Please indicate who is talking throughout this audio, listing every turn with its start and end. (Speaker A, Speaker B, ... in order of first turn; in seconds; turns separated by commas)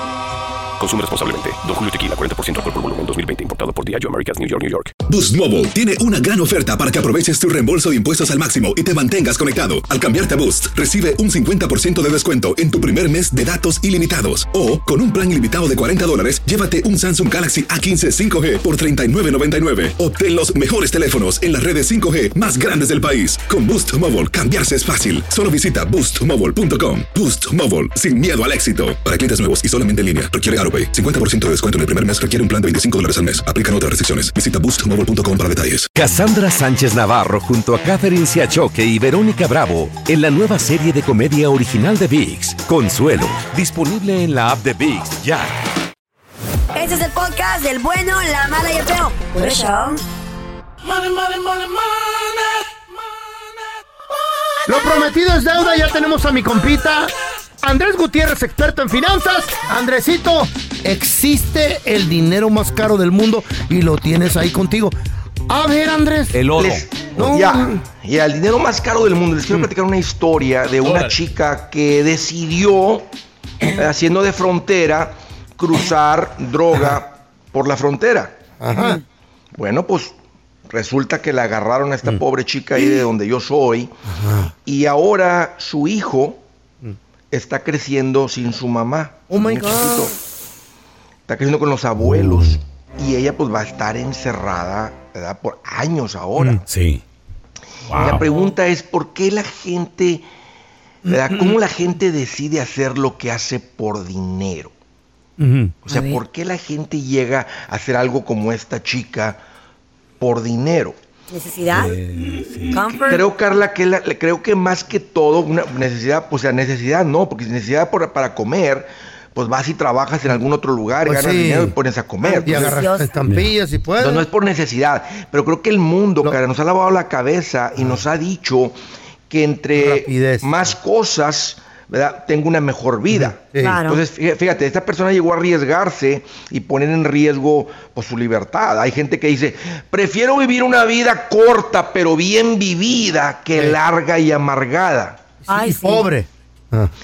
Speaker A: 0.8-5.0, Speaker B: 5.1-35.9, Speaker C: 35.9-45.5, Speaker D: 46.7-50.0, Speaker E: 54.7-65.0, Speaker E: 65.5-66.5, Speaker F: 66.3-66.8, Speaker G: 66.6-73.1, Speaker E: 67.2-67.8, Speaker G: 73.8-78.4, Speaker E: 78.6-79.0, Speaker G: 79.5-80.2, Speaker G: 80.7-83.9, Speaker E: 82.8-83.1, Speaker E: 84.1-84.5, Speaker G: 84.7-86.4, Speaker G: 87.3-90.2, Speaker E: 89.3-90.2, Speaker G: 91.3-96.6, Speaker E: 92.0-92.5, Speaker F: 96.7-97.0, Speaker F: 97.9-98.2, Speaker G: 98.0-100.2, Speaker E: 101.1-101.6, Speaker G: 101.1-104.7, Speaker E: 105.4-105.7, Speaker G: 105.8-109.4, Speaker D: 105.9-106.2, Speaker G: 110.2-111.0, Speaker D: 111.3-112.0, Speaker F: 111.8-112.8, Speaker D: 112.7-113.2, Speaker G: 113.1-122.8, Speaker E: 121.0-121.8, Speaker D: 122.2-123.1, Speaker E: 122.4-124.3, Speaker G: 124.0-128.8, Speaker G: 129.3-145.2, Speaker E: 129.8-130.7, Speaker E: 133.1-133.8, Speaker D: 133.6-134.0, Speaker E: 145.5-146.9, Speaker D: 145.5-146.1